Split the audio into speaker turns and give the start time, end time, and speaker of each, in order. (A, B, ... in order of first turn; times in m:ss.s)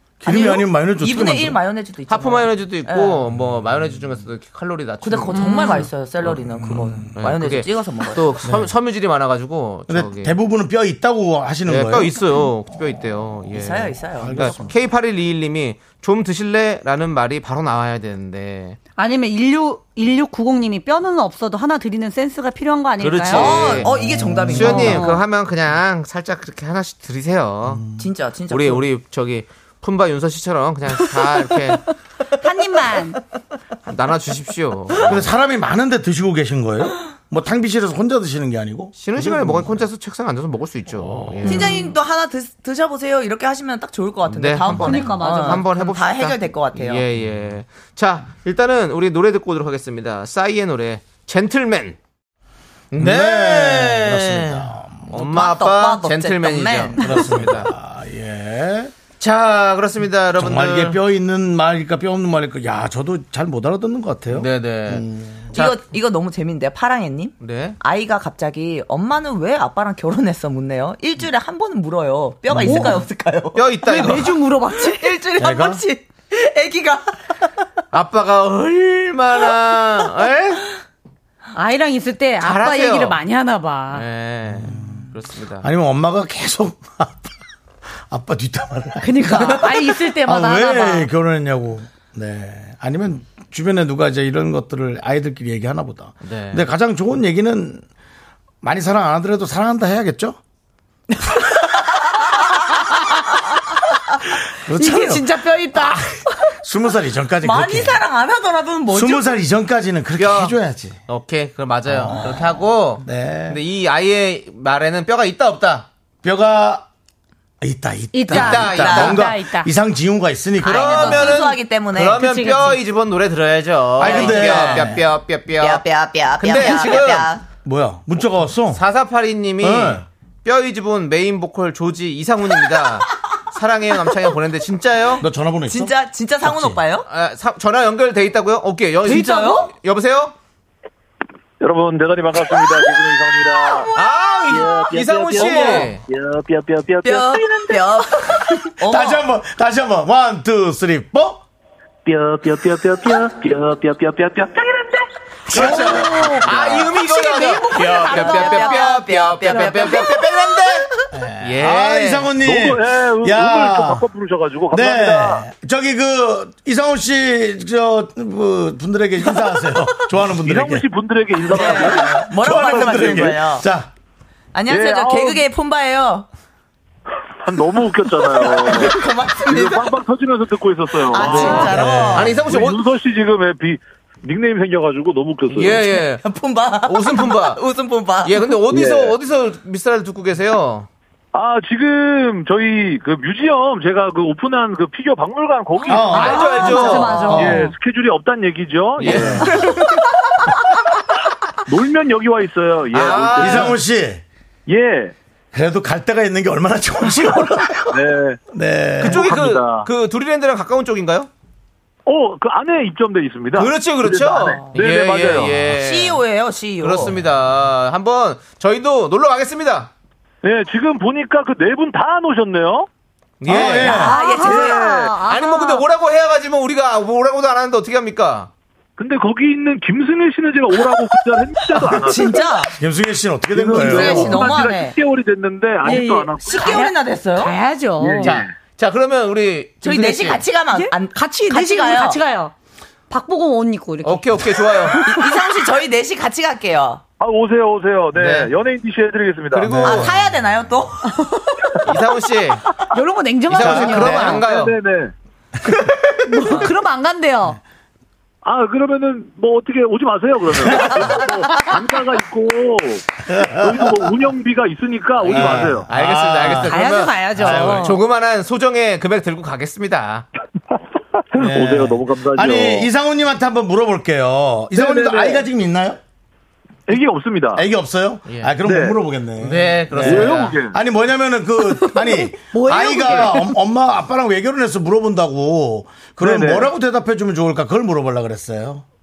0:00.2-0:01.6 A
0:00.2-0:03.2 B
0:02.1-0:05.8 C
0:05.0-0:08.4 B
0:05.3-0:05.9 D
0:06.6-0:07.1 A
0:07.1-0:10.4 C
0:08.4-0:08.7 A
0:09.9-0:12.2 A
0:11.6-0:18.8 C
0:13.5-0:14.6 B
0:14.2-0:14.7 A
0:19.0-0:23.8 D
0:23.0-0:23.9 C
0:23.3-0:25.0 B
0:23.8-0:24.9 A
0:24.5-0:27.8 C
0:24.7-0:25.2 D
0:27.6-0:28.0 A
0:28.0-0:28.8 B
0:28.5-0:31.8 C
0:32.4-0:33.2 D
0:33.8-0:35.2 C
0:35.0-0:39.8 A
0:39.0-0:41.7 C
0:41.0-0:41.5 A
0:41.4-0:47.0 B
0:41.5-0:41.8 D
0:44.3-0:52.0 C
0:44.7-0:45.7 D
0:52.9-0:57.7 C
0:53.0-0:55.1 A
0:55.1-0:57.3 B
0:57.0-0:58.9 A
0:59.2-1:01.0 C
1:00.4-1:05.5 A
1:04.3-1:05.8 C
1:05.5-1:13.6 B
1:07.4-1:07.8 C
1:12.5-1:13.0 A
1:12.6-1:13.0 D
1:13.5-1:14.4 C
1:13.8-1:15.2 D
1:14.8-1:17.6 B
1:15.4-1:15.8 A
1:17.9-1:20.6 C
1:21.5-1:24.0 D
1:22.4-1:23.2 C
1:23.9-1:25.6 C
1:24.5-1:25.1 A
1:25.6-1:27.4 A
1:28.1-1:37.8 A
1:29.0-1:31.1 D
1:36.2-1:36.7 C
1:38.6-1:40.4 A
1:42.8-1:43.2 D
1:44.6-1:48.0 A
1:44.7-1:46.5 D
1:47.4-1:49.4 B
1:48.9-1:51.0 A
1:50.2-1:55.9 C
1:51.9-1:53.6 A
1:56.2-1:56.9 A
1:57.6-2:01.2 A
1:58.1-1:59.7 D
1:58.3-1:59.2 C
1:58.4-1:59.2 B
2:00.6-2:02.5 B
2:00.6-2:05.8 C
2:02.1-2:02.8 D
2:04.0-2:05.0 A
2:04.0-2:05.0 B
2:05.5-2:07.4 B
2:06.4-2:07.3 C
2:06.6-2:07.0 D
2:07.6-2:08.8 A
2:08.7-2:15.2 C
2:09.6-2:10.0 A
2:15.2-2:16.8 A
2:15.7-2:17.0 B
2:17.0-2:20.3 C
2:19.0-2:19.7 B
2:21.6-2:23.9 E
2:23.9-2:26.0 C
2:24.5-2:27.8 E
2:25.4-2:25.9 B
2:27.0-2:29.2 B
2:28.8-2:31.4 A
2:32.0-2:35.1 E
2:35.5-2:40.9 C
2:35.5-2:36.6 A
2:35.5-2:36.4 D
2:35.7-2:40.7 B
2:41.1-2:44.0 A
2:41.4-2:42.3 C
2:42.4-2:45.4 E
2:44.7-2:50.9 A
2:50.3-2:53.3 E
2:51.4-2:53.9 A
2:51.4-2:53.6 B
2:54.5-2:56.2 B
2:54.7-2:55.4 E
2:57.4-3:01.7 E
2:58.4-3:00.0 B
3:01.0-3:02.4 B
3:01.2-3:02.5 A
3:01.2-3:02.8 C
3:02.4-3:05.9 E
3:05.5-3:06.2 C
3:05.6-3:08.7 B
3:06.8-3:07.6 C
3:08.2-3:10.9 C
3:08.7-3:09.1 E
3:11.3-3:16.6 E
3:15.9-3:17.7 A
3:16.1-3:17.4 C
3:16.5-3:17.7 D
3:17.4-3:19.5 E
3:19.0-3:19.6 C
3:19.0-3:19.5 A
3:21.7-3:23.8 E
3:22.9-3:23.8 C
3:23.3-3:24.2 A
3:24.7-3:25.1 E
3:25.5-3:29.3 A
3:27.9-3:28.4 E
3:29.0-3:31.3 C
3:29.0-3:29.9 E
3:32.0-3:35.6 E
3:33.5-3:36.2 C
3:35.6-3:37.2 B
3:36.8-3:39.9 C
3:40.4-3:42.9 E
3:43.4-3:44.0 C
3:43.5-3:44.7 A
3:43.5-3:44.9 B
3:44.0-3:45.8 D
3:44.5-3:45.1 E
3:45.2-3:48.5 C
3:49.0-3:52.4 E
3:51.8-3:52.7 B
3:52.8-3:54.5 A
3:53.5-3:56.8 E
3:53.7-3:54.9 B
3:55.8-3:58.4 D
3:55.9-3:57.6 B
3:58.0-3:58.5 E
3:58.2-4:00.4 C
3:59.8-4:02.2 B
4:00.7-4:02.5 D
4:03.1-4:05.4 D
4:04.0-4:05.0 C
4:05.0-4:07.0 B
4:07.2-4:09.8 E
4:08.1-4:08.5 C
4:09.5-4:10.1 C
4:09.7-4:10.2 A
4:09.8-4:11.0 B
4:11.1-4:11.5 D
4:11.8-4:12.6 C
4:12.9-4:14.4 D
4:13.5-4:14.7 C
4:13.5-4:14.2 A
4:14.2-4:15.1 E
4:16.2-4:17.6 D
4:18.4-4:25.8 E
4:23.3-4:24.3 A
4:25.2-4:30.2 C
4:25.2-4:26.7 A
4:26.6-4:28.0 D
4:27.3-4:28.0 A
4:31.3-4:32.9 E
4:31.4-4:36.0 A
4:34.7-4:35.4 E
4:36.9-4:37.6 E
4:37.5-4:48.8 A
4:38.3-4:38.6 C
4:38.6-4:39.0 E
4:39.4-4:40.6 C
4:40.0-4:40.8 E
4:42.7-4:43.3 C
4:42.7-4:43.5 D
4:46.2-4:46.7 E